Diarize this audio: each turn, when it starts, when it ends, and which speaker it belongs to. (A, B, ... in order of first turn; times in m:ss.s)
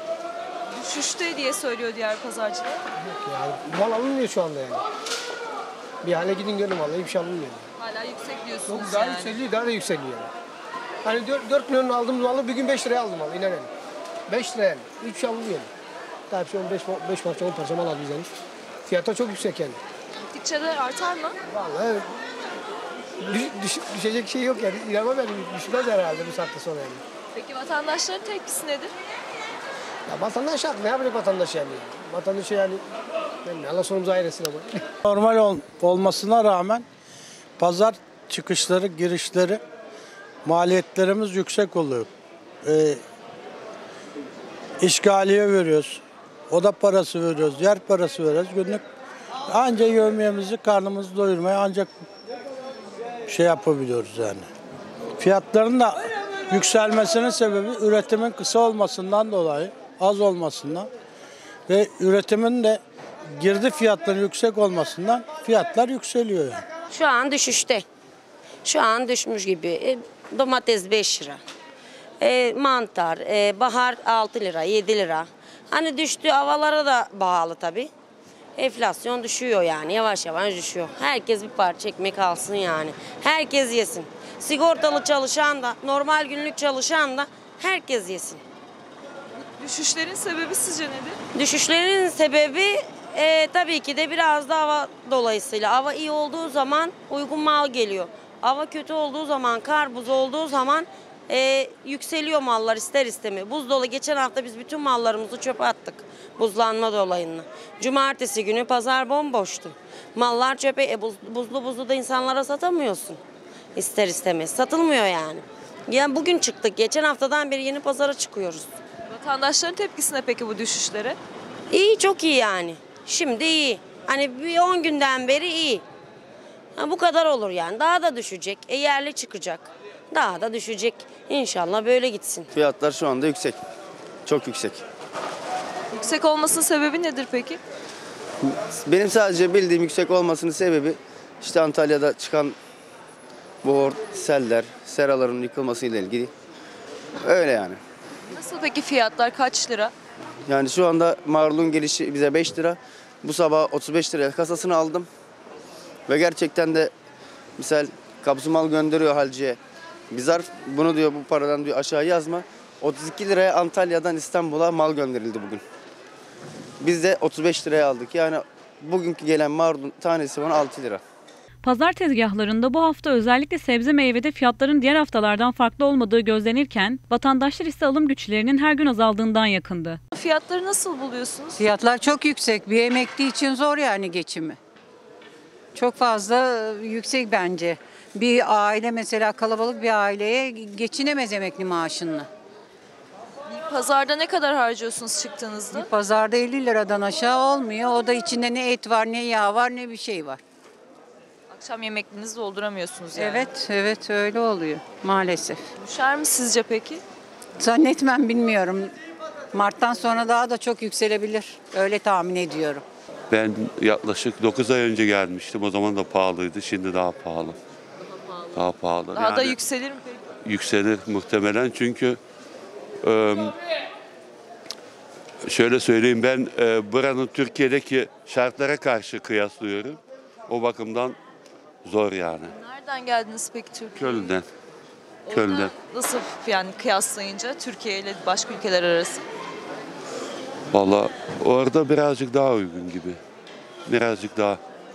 0:00.8-0:02.8 A
0:03.0-0:04.8 B
0:06.0-0:07.6 B
0:07.8-0:09.4 A
0:08.7-0:10.3 B
0:11.0-0:13.7 B
0:14.3-0:15.7 B
0:16.3-0:18.3 B
0:18.9-0:19.8 B
0:20.3-0:21.4 A
0:21.5-0:22.1 B
0:23.2-0:27.0 B
0:27.4-0:28.9 A
0:30.1-0:32.8 B
0:33.4-0:34.8 B
0:35.0-0:36.8 C
0:37.6-0:39.6 C
0:40.4-0:42.1 C
0:42.6-0:43.0 C
0:44.8-0:48.8 C
0:49.5-0:52.0 C
0:53.2-0:54.5 C
0:55.2-1:00.9 C
1:01.7-1:02.8 C
1:03.4-1:06.6 C
1:06.9-1:07.8 D
1:08.6-1:11.4 D
1:12.2-1:17.9 D
1:18.6-1:28.4 D
1:29.6-1:31.2 A
1:31.3-1:53.2 D
1:53.7-1:58.7 D
1:59.1-2:01.2 A
2:01.7-2:05.8 D
2:06.8-2:12.5 D
2:12.5-2:13.6 E
2:14.2-2:14.8 E
2:15.9-2:17.6 A
2:18.4-2:22.6 E
2:23.6-2:26.3 E
2:27.2-2:27.8 E
2:28.3-2:29.9 A
2:30.5-2:35.1 E
2:36.1-2:36.9 E
2:37.6-2:39.6 E
2:40.1-2:45.6 E
2:46.8-2:51.0 E
2:51.6-3:00.0 F
3:00.1-3:01.7 A
3:01.6-3:04.6 G
3:05.8-3:12.3 G
3:13.5-3:15.9 A
3:15.7-3:20.4 G
3:21.5-3:23.5 A
3:23.1-3:25.6 G
3:25.8-3:27.0 A
3:27.6-3:28.9 G
3:29.5-3:32.8 G
3:33.3-3:37.6 H
3:38.5-3:39.6 H
3:39.1-3:40.2 A
3:40.4-3:42.2 H
3:43.0-3:43.5 H
3:45.4-3:51.2 H
3:51.8-3:52.5 H
3:52.5-3:54.3 A
3:54.0-3:54.4 H
3:55.3-3:59.2 A
3:55.3-3:55.7 H
4:00.7-4:03.2 H
4:03.9-4:04.6 H